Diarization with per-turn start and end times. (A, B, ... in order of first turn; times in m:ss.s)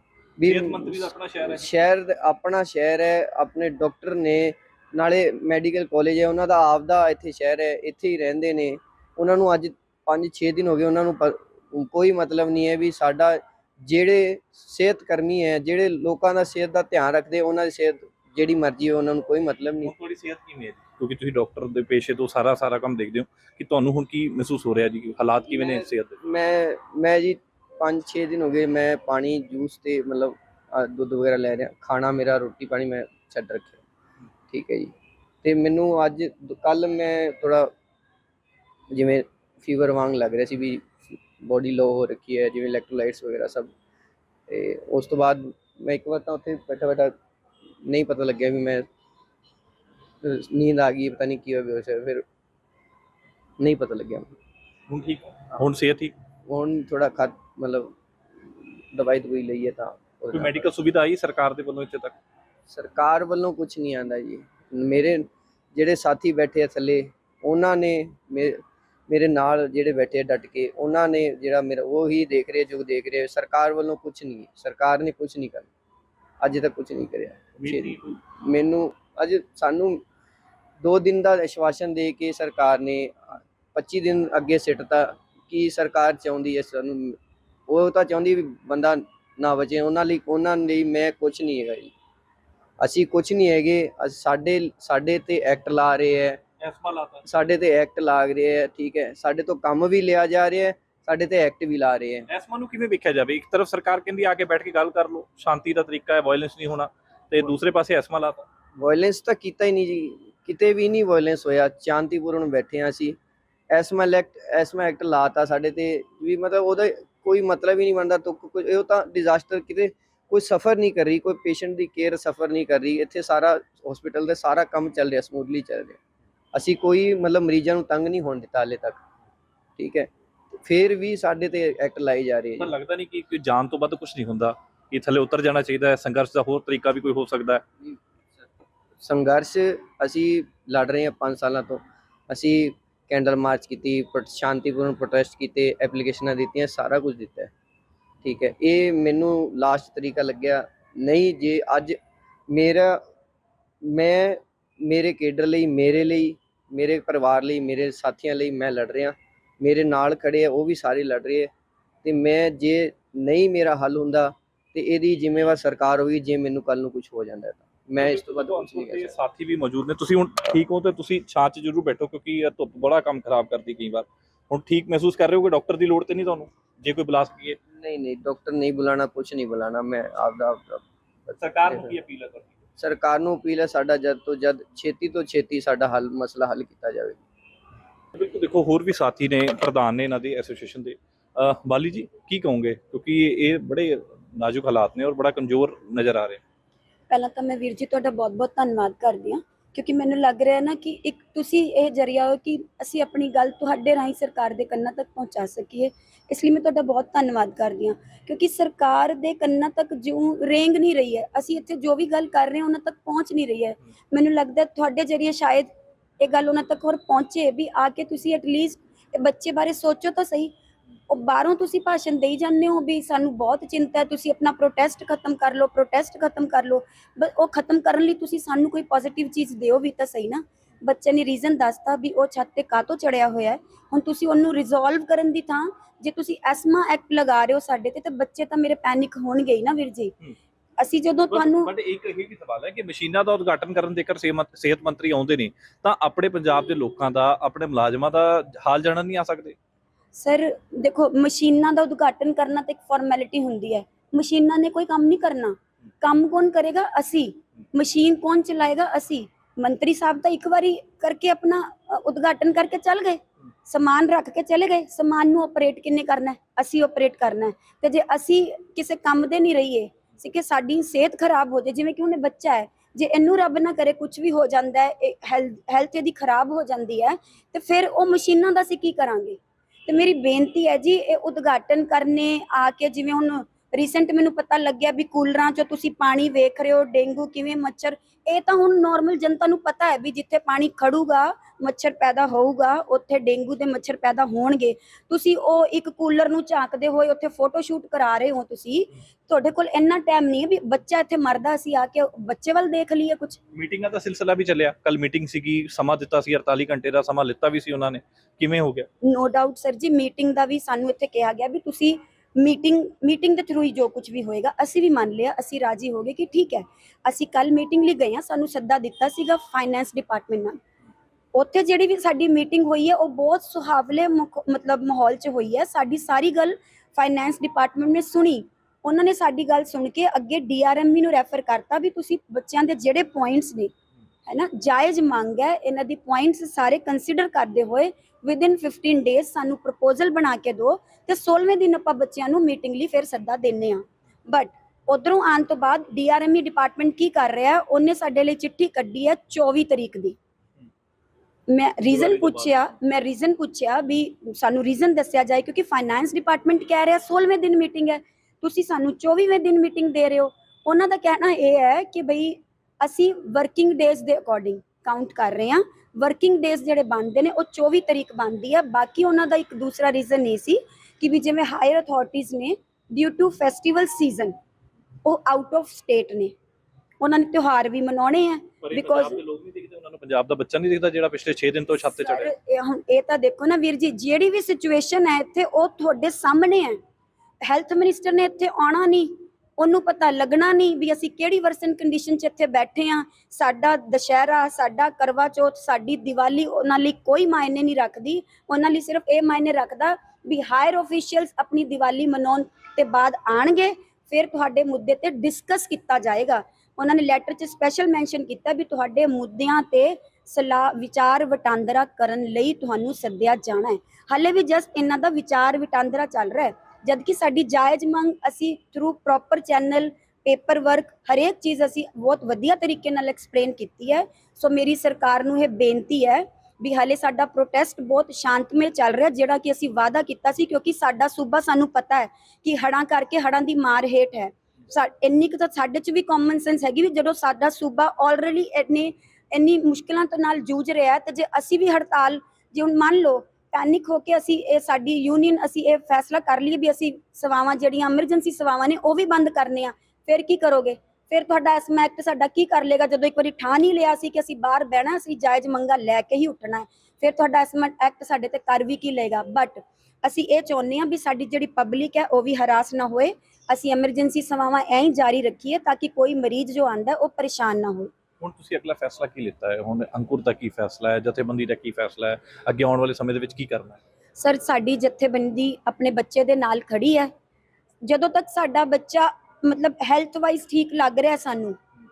0:00.4-0:19.9 A
0:00.4-0:01.7 B
0:19.8-0:26.2 B
0:25.6-0:33.8 A
0:34.5-0:37.7 A
0:38.9-0:43.7 A
0:44.5-0:47.1 A
0:47.8-0:48.9 A
0:50.2-0:52.2 A
0:53.6-0:54.3 A
0:54.9-0:56.1 B
0:56.5-0:58.0 A
0:58.9-1:00.7 A
1:00.3-1:02.2 B
1:02.7-1:15.7 A
1:16.4-1:20.0 A
1:17.6-1:18.2 B
1:20.8-1:27.2 A
1:27.7-1:31.9 A
1:32.8-1:36.4 A
1:36.6-1:37.2 B
1:37.3-1:42.3 A
1:42.3-1:48.5 B
1:48.8-1:53.2 A
1:53.7-2:06.0 A
2:06.5-2:09.0 A
2:09.8-2:10.1 A
2:10.6-2:12.7 A
2:12.6-2:17.6 B
2:19.0-2:27.5 A
2:28.2-2:32.0 A
2:32.5-2:33.0 A
2:33.8-2:41.5 A
2:42.0-2:49.1 A
2:48.0-2:57.6 B
2:57.8-3:00.8 A
3:01.4-3:02.5 B
3:02.8-3:07.2 A
3:08.2-3:16.4 B
3:17.1-3:35.7 C
3:36.2-3:40.5 C
3:41.1-4:00.1 C
4:00.8-4:01.7 C
4:01.3-4:09.6 B
4:10.2-5:03.4 C
5:03.5-5:08.9 B
5:09.0-5:20.6 C
5:21.3-5:33.7 C
5:34.3-5:50.2 C
5:51.5-6:14.4 C
5:51.9-5:52.6 B
6:15.0-6:16.3 C
6:17.0-6:19.2 C
6:18.6-6:22.3 B
6:21.9-6:26.8 C
6:27.4-7:47.9 C
7:48.2-7:53.8 B
7:54.2-7:57.1 C
7:57.8-8:01.6 C